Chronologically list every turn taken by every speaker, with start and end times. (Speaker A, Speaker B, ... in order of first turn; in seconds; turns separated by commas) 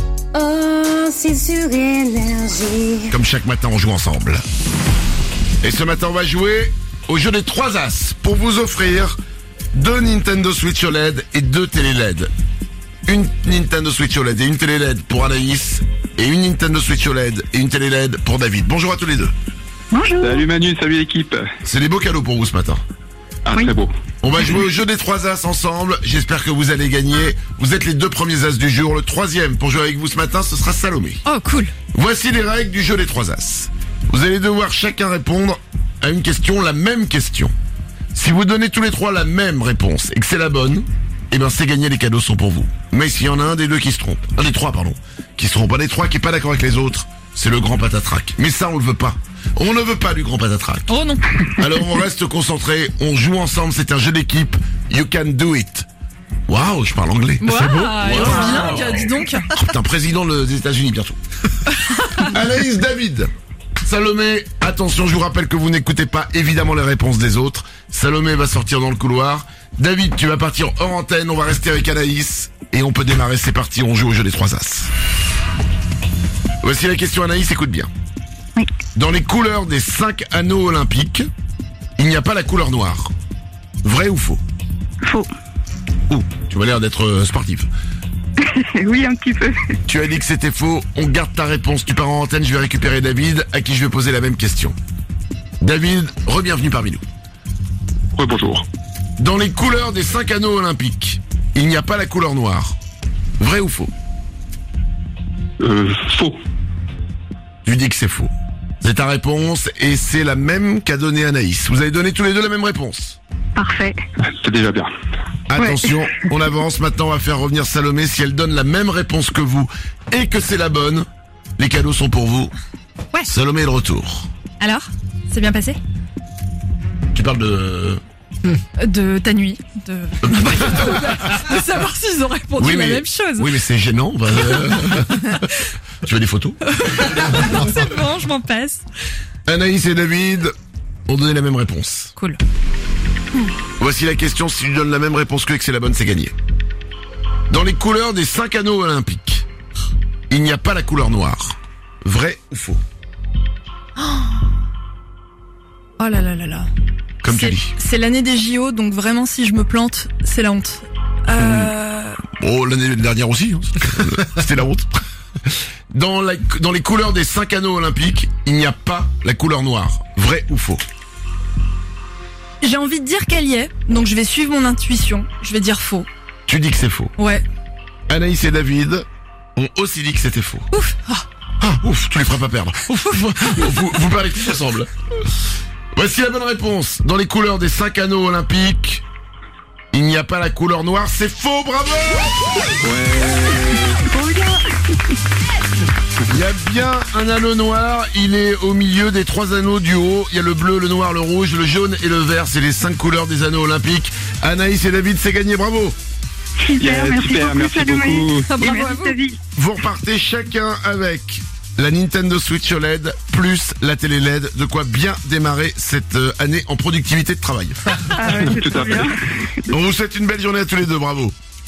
Speaker A: 0.3-3.1, Speaker B: 3.1-4.4, Speaker B: 5.6-9.2, Speaker B: 9.7-12.3, Speaker B: 13.1-19.3, Speaker C: 19.9-20.4, Speaker D: 20.2-21.5, Speaker B: 21.6-22.8, Speaker D: 23.5-23.9, Speaker B: 24.2-31.2, Speaker E: 31.2-31.7, Speaker B: 31.9-37.5, Speaker B: 38.1-55.9, Speaker E: 50.9-51.6, Speaker B: 56.5-61.2, Speaker E: 57.4-59.5, Speaker B: 62.2-63.3, Speaker B: 63.8-74.9, Speaker B: 76.6-77.9, Speaker B: 79.0-81.3, Speaker B: 82.0-83.1, Speaker B: 83.8-84.4, Speaker C: 85.0-85.3, Speaker B: 86.1-87.7, Speaker C: 88.4-89.6, Speaker B: 89.9-94.8, Speaker B: 95.6-97.0, Speaker D: 98.1-98.7, Speaker B: 99.2-102.8, Speaker B: 103.4-103.9, Speaker D: 105.6-106.4, Speaker B: 107.7-113.2, Speaker C: 113.6-114.0, Speaker D: 114.4-114.9, Speaker B: 115.5-121.1, Speaker C: 115.6-115.9, Speaker B: 121.6-122.5, Speaker B: 123.3-124.3, Speaker E: 124.6-125.8, Speaker B: 127.1-128.0, Speaker E: 128.8-133.5, Speaker B: 130.6-130.8, Speaker B: 132.6-135.4, Speaker E: 135.1-135.5, Speaker B: 136.0-136.8, Speaker E: 136.7-138.8, Speaker B: 139.5-140.5, Speaker B: 141.1-142.1, Speaker B: 143.8-146.3, Speaker B: 147.5-149.5, Speaker B: 150.3-152.8, Speaker E: 154.0-154.4, Speaker E: 156.0-156.7, Speaker B: 157.2-157.8, Speaker E: 157.3-162.2, Speaker B: 161.3-161.7, Speaker B: 162.4-165.0, Speaker B: 165.9-170.8, Speaker E: 172.6-176.1, Speaker B: 176.5-177.2, Speaker E: 177.2-177.4, Speaker B: 178.1-180.7, Speaker E: 180.7-181.3, Speaker B: 181.6-184.9, Speaker E: 183.3-183.6, Speaker B: 185.9-189.0, Speaker B: 189.9-192.6, Speaker D: 192.8-194.1, Speaker C: 194.1-194.6, Speaker B: 196.3-206.0, Speaker C: 206.6-209.4, Speaker D: 206.8-208.4, Speaker E: 208.5-209.2, Speaker B: 209.6-217.9, Speaker C: 218.2-219.1, Speaker D: 218.2-219.1, Speaker B: 219.7-221.3